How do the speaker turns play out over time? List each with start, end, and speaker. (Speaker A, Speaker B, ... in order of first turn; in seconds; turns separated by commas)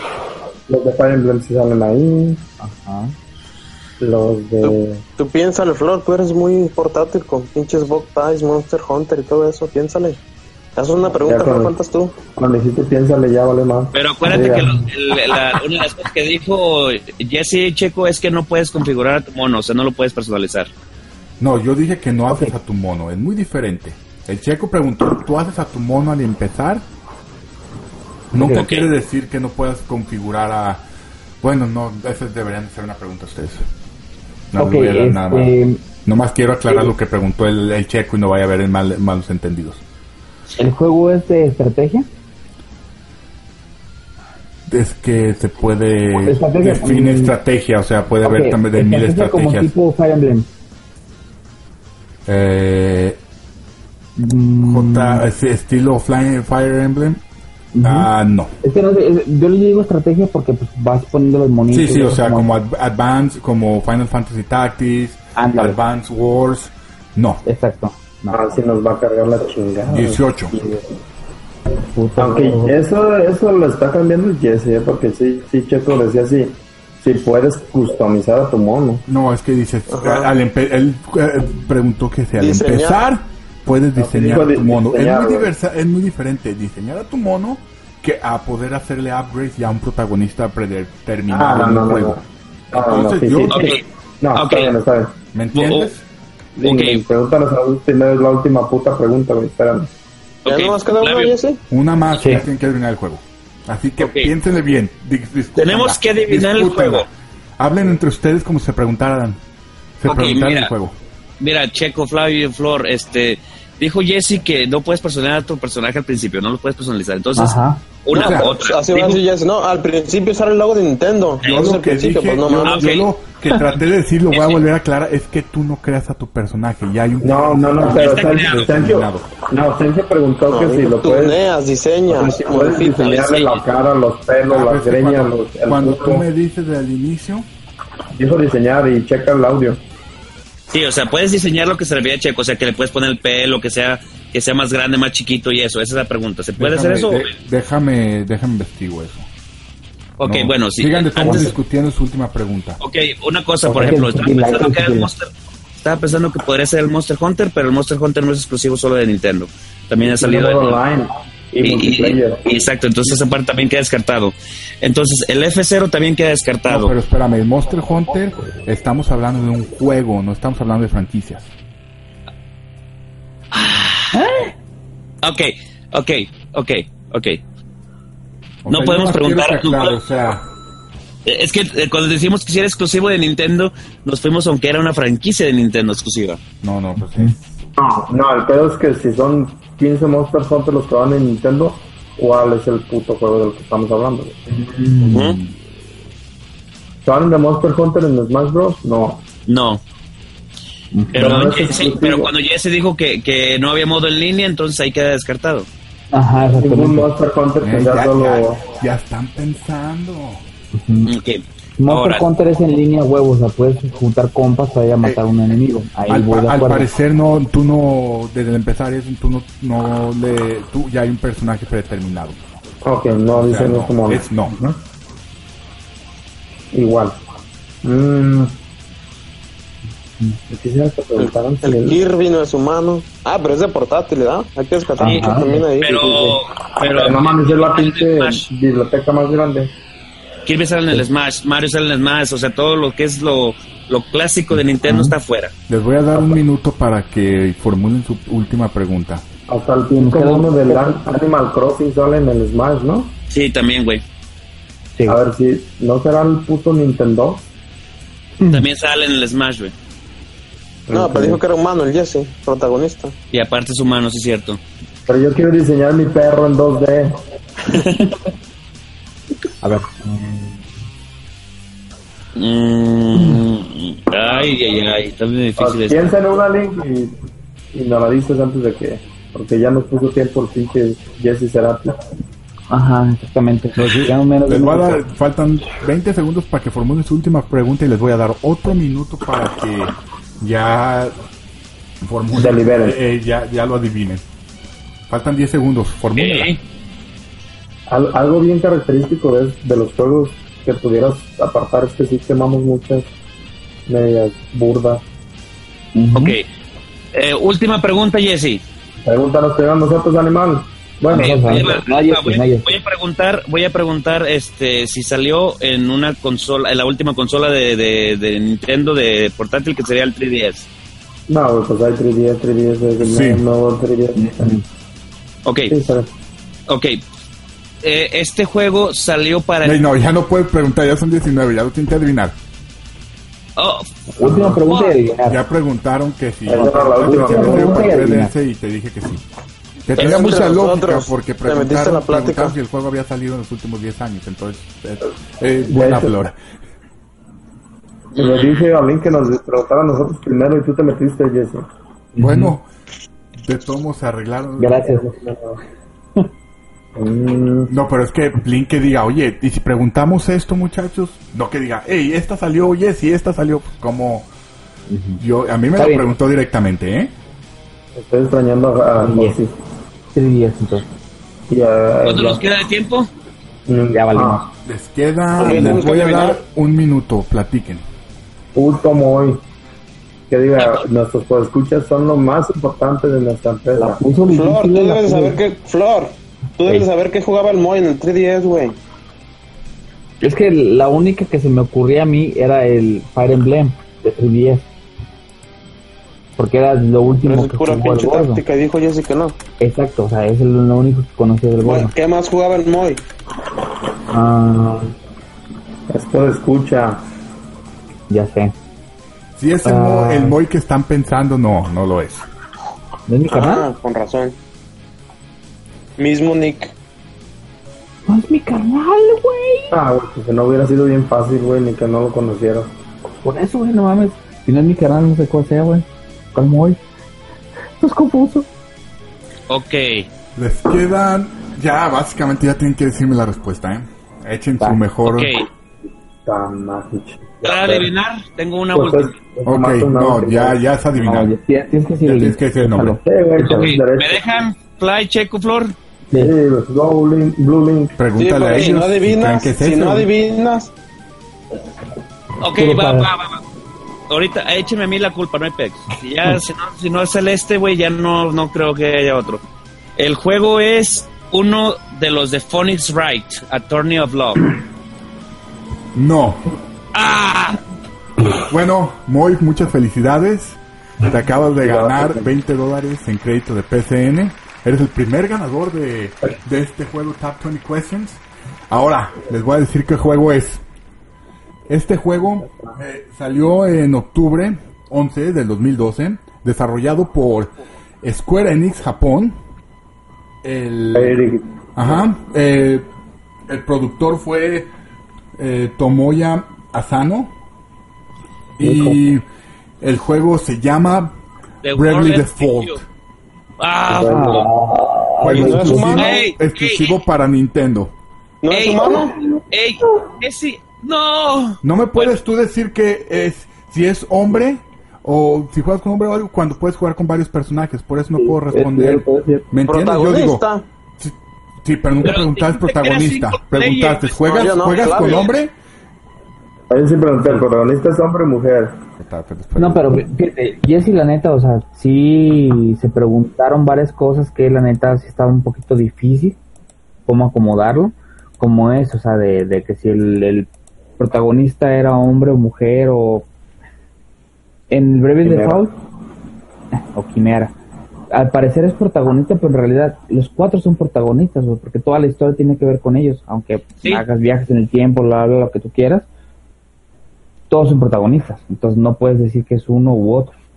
Speaker A: 0.7-2.4, Speaker B: 2.6-3.1, Speaker A: 4.0-5.0, Speaker C: 4.6-10.2, Speaker C: 10.8-12.2, Speaker A: 11.2-11.7, Speaker A: 12.2-14.9, Speaker D: 13.9-20.7, Speaker E: 21.4-26.8, Speaker E: 28.3-30.8, Speaker D: 28.4-28.9, Speaker E: 31.4-33.6, Speaker E: 34.5-39.8, Speaker B: 34.5-35.8, Speaker B: 40.6-42.1, Speaker E: 44.7-49.7, Speaker B: 46.2-47.3, Speaker B: 48.2-50.5, Speaker E: 52.2-53.2, Speaker B: 54.2-55.2, Speaker E: 54.6-57.2, Speaker B: 57.7-58.1, Speaker E: 57.8-58.5, Speaker B: 58.6-62.5, Speaker E: 61.7-67.4, Speaker B: 65.3-65.8, Speaker B: 67.4-68.0, Speaker A: 68.3-70.9, Speaker E: 69.9-70.5, Speaker B: 71.9-72.8, Speaker A: 72.2-79.0, Speaker E: 79.1-93.8, Speaker C: 79.9-80.3, Speaker C: 82.3-83.0, Speaker A: 84.0-85.5, Speaker A: 91.3-95.1, Speaker D: 93.5-93.8, Speaker D: 94.3-94.7, Speaker E: 95.3-96.0, Speaker D: 95.5-95.9, Speaker A: 96.6-99.9, Speaker D: 96.6-97.0, Speaker D: 100.4-101.3, Speaker C: 100.4-101.6, Speaker E: 101.7-107.1, Speaker D: 104.0-104.3, Speaker D: 105.6-107.1, Speaker E: 107.6-109.4, Speaker E: 110.0-111.0, Speaker D: 110.0-110.7, Speaker D: 111.4-119.2, Speaker B: 117.3-117.8, Speaker E: 118.1-118.5, Speaker C: 118.1-123.0, Speaker E: 121.4-129.3, Speaker D: 122.6-123.1, Speaker D: 124.3-124.7, Speaker A: 127.2-131.4, Speaker D: 127.8-128.7, Speaker C: 130.5-132.8, Speaker A: 132.1-136.2, Speaker D: 132.7-133.6, Speaker E: 134.5-137.5, Speaker A: 138.1-139.8, Speaker D: 140.7-147.3, Speaker E: 146.6-149.3, Speaker D: 150.2-151.5, Speaker E: 150.2-152.8, Speaker D: 152.8-155.3, Speaker B: 153.7-155.1, Speaker D: 155.8-160.8, Speaker A: 160.0-162.4, Speaker D: 161.6-166.9, Speaker E: 166.7-171.5, Speaker D: 173.5-174.2, Speaker D: 175.2-177.4, Speaker E: 178.6-180.4, Speaker D: 178.7-179.9, Speaker D: 181.2-186.4, Speaker E: 186.6-187.6, Speaker B: 187.0-187.3, Speaker A: 187.8-194.4, Speaker B: 194.5-195.5, Speaker D: 195.1-195.4, Speaker A: 197.0-199.2, Speaker D: 199.5-199.8, Speaker B: 200.9-201.4, Speaker D: 201.1-205.7, Speaker A: 201.2-202.3, Speaker B: 206.1-207.1, Speaker A: 206.5-208.6, Speaker E: 207.6-210.4, Speaker B: 210.7-211.1, Speaker D: 211.1-212.2, Speaker B: 211.8-216.9, Speaker E: 216.1-222.4, Speaker A: 222.8-224.7, Speaker E: 223.3-224.5, Speaker A: 226.7-227.2, Speaker A: 227.8-228.6, Speaker A: 230.5-232.0, Speaker C: 231.2-236.4, Speaker B: 235.0-235.6, Speaker D: 235.8-238.5, Speaker A: 236.8-239.7, Speaker D: 240.4-245.5, Speaker B: 244.8-245.1, Speaker E: 245.7-249.2, Speaker A: 249.5-253.1, Speaker B: 250.0-251.0, Speaker D: 253.3-254.0, Speaker A: 255.1-257.5, Speaker D: 258.5-259.7, Speaker A: 260.9-261.4, Speaker C: 260.9-263.1, Speaker D: 263.3-264.6, Speaker A: 265.1-267.1, Speaker D: 267.7-268.0, Speaker E: 269.6-269.9, Speaker B: 270.0-270.6, Speaker D: 272.3-276.2, Speaker A: 275.6-277.2, Speaker A: 277.7-282.0, Speaker B: 282.7-285.0, Speaker E: 283.8-291.1, Speaker E: 292.0-294.2, Speaker A: 292.3-293.0, Speaker E: 295.1-296.6, Speaker D: 296.1-296.6, Speaker A: 297.9-303.1, Speaker A: 303.9-305.0, Speaker B: 305.9-306.4, Speaker D: 306.1-306.4, Speaker D: 307.1-308.6, Speaker A: 309.0-311.8, Speaker B: 311.1-312.7, Speaker D: 311.1-320.7, Speaker A: 321.3-324.5, Speaker E: 323.0-323.4, Speaker B: 324.1-324.6, Speaker D: 325.4-325.7, Speaker A: 325.7-326.1, Speaker D: 326.7-327.0, Speaker D: 327.8-329.8, Speaker E: 329.6-332.3, Speaker D: 333.6-333.9, Speaker B: 334.2-335.4, Speaker E: 334.2-334.6, Speaker D: 334.6-334.9, Speaker E: 335.2-339.2, Speaker A: 336.4-338.0, Speaker B: 337.0-338.3, Speaker E: 339.8-346.4, Speaker C: 339.9-342.6, Speaker A: 345.7-346.1, Speaker A: 348.1-351.6, Speaker D: 348.2-348.7, Speaker B: 352.1-352.5, Speaker E: 352.2-352.6, Speaker E: 353.3-354.9, Speaker B: 354.6-355.2, Speaker A: 355.2-355.6, Speaker A: 356.9-357.7, Speaker E: 357.7-364.3, Speaker B: 364.9-365.2, Speaker E: 365.2-367.1, Speaker B: 365.8-366.1, Speaker A: 367.9-369.5, Speaker B: 369.0-369.4, Speaker B: 370.1-370.9, Speaker A: 371.5-372.4, Speaker D: 372.1-373.1, Speaker A: 373.7-374.5, Speaker B: 373.9-374.4, Speaker E: 374.6-377.9, Speaker C: 375.4-376.4, Speaker A: 378.5-379.4, Speaker A: 380.3-384.0, Speaker D: 380.6-380.8, Speaker B: 383.7-385.4, Speaker C: 384.3-388.8, Speaker B: 390.2-394.7, Speaker B: 396.4-398.4, Speaker C: 397.2-399.4, Speaker B: 399.6-401.9, Speaker C: 401.6-403.0, Speaker B: 404.1-404.9, Speaker A: 405.9-407.0, Speaker B: 408.1-408.5, Speaker E: 409.4-412.2, Speaker B: 409.6-410.4, Speaker B: 413.1-413.6, Speaker C: 413.3-414.4, Speaker C: 416.0-416.7, Speaker B: 418.1-419.7, Speaker A: 419.7-422.7, Speaker B: 423.2-426.8, Speaker B: 427.8-428.5, Speaker D: 429.5-430.1, Speaker E: 430.3-435.4, Speaker D: 435.1-435.4, Speaker A: 436.2-437.9, Speaker D: 437.4-439.1, Speaker A: 438.7-440.6, Speaker E: 439.4-441.3, Speaker B: 440.9-443.7, Speaker E: 442.0-443.0, Speaker A: 443.0-444.4, Speaker D: 443.4-445.8, Speaker A: 446.1-448.0, Speaker E: 448.0-450.1, Speaker C: 448.1-450.7, Speaker D: 452.4-453.4, Speaker B: 452.5-453.1, Speaker D: 454.1-459.4, Speaker D: 460.0-464.5, Speaker E: 465.9-466.5, Speaker D: 466.9-467.6, Speaker E: 468.5-480.6, Speaker A: 471.8-472.2, Speaker E: 481.7-489.4, Speaker E: 490.4-492.9, Speaker A: 490.9-492.0, Speaker E: 493.5-494.7, Speaker E: 495.4-497.3, Speaker E: 498.6-499.2, Speaker A: 498.6-499.0, Speaker E: 499.8-501.1, Speaker D: 501.6-502.8, Speaker E: 501.7-502.8, Speaker D: 503.6-504.5, Speaker A: 503.9-504.5, Speaker B: 504.1-506.0, Speaker E: 505.2-507.9, Speaker C: 505.3-506.2, Speaker D: 505.8-506.9, Speaker C: 508.4-509.1, Speaker D: 508.5-512.1, Speaker B: 508.9-509.4, Speaker E: 511.6-520.4, Speaker B: 518.2-519.5, Speaker C: 519.6-520.6, Speaker E: 521.0-525.5, Speaker D: 522.0-525.3, Speaker C: 524.3-525.3, Speaker A: 526.7-528.8, Speaker E: 529.0-530.0, Speaker B: 529.6-536.4, Speaker B: 537.1-540.5, Speaker B: 541.0-543.3, Speaker B: 544.7-545.7, Speaker A: 545.2-545.6, Speaker B: 546.7-547.5, Speaker B: 548.1-556.1, Speaker B: 557.5-560.3